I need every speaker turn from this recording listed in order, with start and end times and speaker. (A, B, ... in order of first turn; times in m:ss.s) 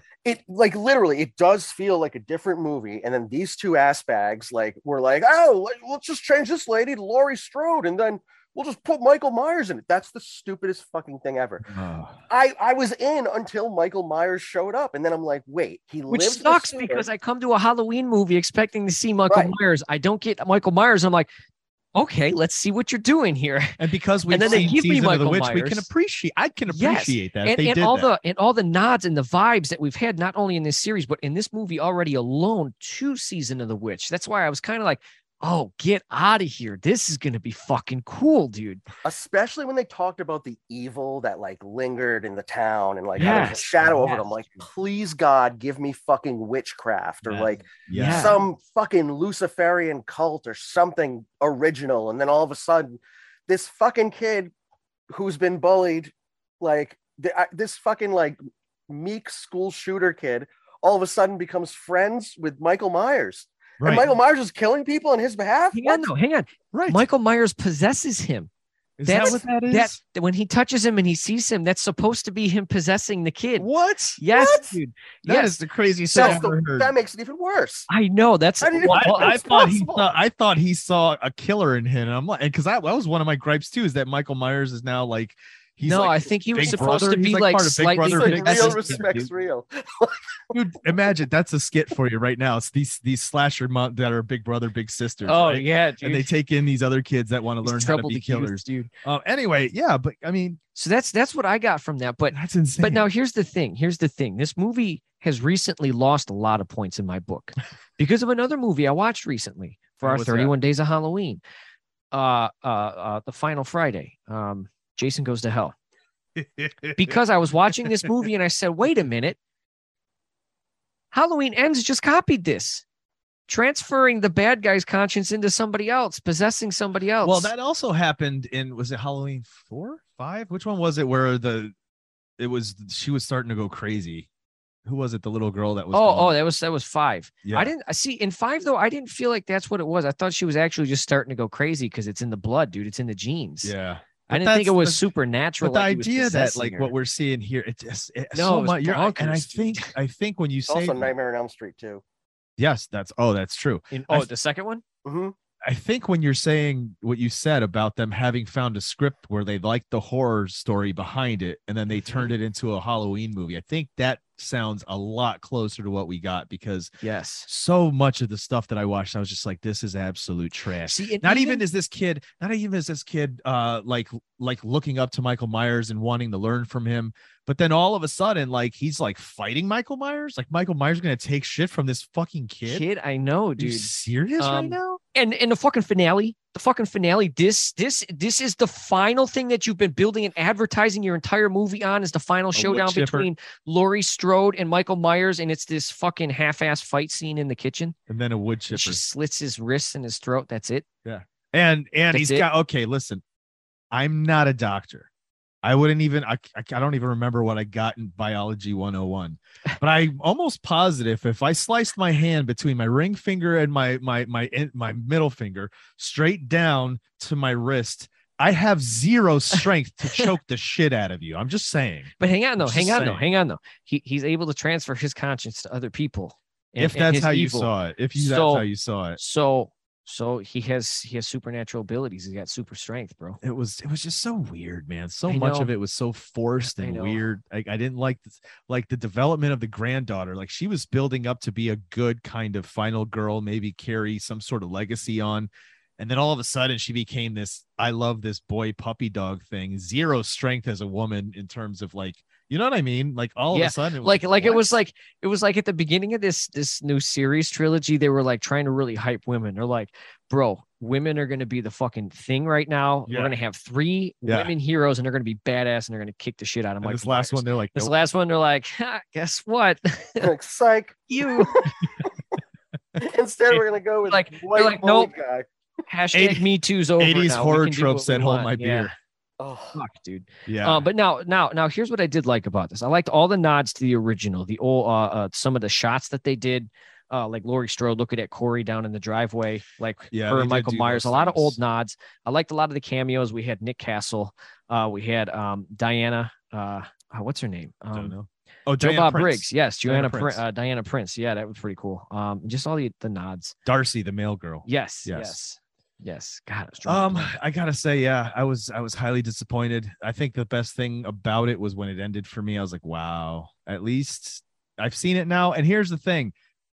0:00.2-0:11.7 A
0:11.7-0:12.2 B
0:12.3-0:17.1 A
0:16.1-0:21.3 C
0:22.0-0:25.9 C
0:23.8-0:28.1 B
0:24.4-0:24.7 A
0:26.7-0:38.8 C
0:39.0-0:54.5 A
0:43.2-0:43.9 B
0:43.2-0:44.2 C
0:47.3-0:48.4 B
0:47.9-0:48.4 C
0:55.1-1:06.1 A
1:03.8-1:04.1 B
1:05.7-1:08.5 C
1:06.7-1:07.0 B
1:09.0-1:10.0 B
1:09.1-1:13.7 C
1:13.6-1:14.2 B
1:14.2-1:15.6 C
1:14.3-1:14.7 A
1:15.2-1:16.9 B
1:16.1-1:16.5 C
1:16.2-1:17.9 A
1:17.9-1:19.5 C
1:18.6-1:20.1 A
1:18.9-1:29.3 B
1:25.8-1:29.3 C
1:28.1-1:30.2 A
1:30.5-1:40.6 B
1:35.2-1:36.3 C
1:37.6-1:38.9 C
1:40.8-1:51.4 C
1:42.3-1:43.1 B
1:50.0-1:50.5 B
1:52.1-1:55.7 C
1:56.4-1:57.2 B
1:57.0-1:59.4 C
2:01.1-2:02.8 C
2:03.5-2:07.5 C
2:07.2-2:11.7 B
2:12.4-2:14.3 B
2:14.8-2:16.4 B
2:15.9-2:23.7 C
2:17.4-2:17.7 B
2:23.6-2:25.0 B
2:24.3-2:26.9 C
2:25.6-2:31.1 B
2:28.3-2:29.9 C
2:30.7-2:32.0 A
2:32.6-2:34.3 B
2:33.9-2:34.8 C
2:35.0-2:35.3 A
2:35.6-2:46.9 B
2:47.0-2:47.5 C
2:47.5-3:02.8 B
2:50.9-2:51.6 C
3:02.7-3:18.0 C
3:03.6-3:05.0 B
3:12.6-3:13.3 B
3:18.1-3:19.0 B
3:18.7-3:20.9 C
3:21.0-3:23.2 B
3:22.1-3:22.5 C
3:23.9-3:25.1 B
3:25.6-3:43.2 B
3:42.2-3:53.4 C
3:46.8-3:49.2 B
3:53.4-4:14.7 B
3:55.3-3:55.7 C
3:56.6-3:57.2 C
4:13.5-4:30.3 C
4:23.1-4:23.3 B
4:24.3-4:24.5 B
4:26.8-4:27.9 B
4:30.2-4:32.1 A
4:31.1-4:31.6 C
4:33.0-4:35.5 A
4:34.1-4:35.1 C
4:35.9-4:38.9 C
4:36.1-4:38.9 B
4:39.4-4:39.8 A
4:39.8-4:58.2 C
4:40.5-4:40.9 B
4:50.1-4:51.6 B
4:57.9-5:00.4 B
4:58.8-5:03.6 C
5:03.7-5:05.4 B
5:04.7-5:07.3 C
5:06.9-5:16.3 B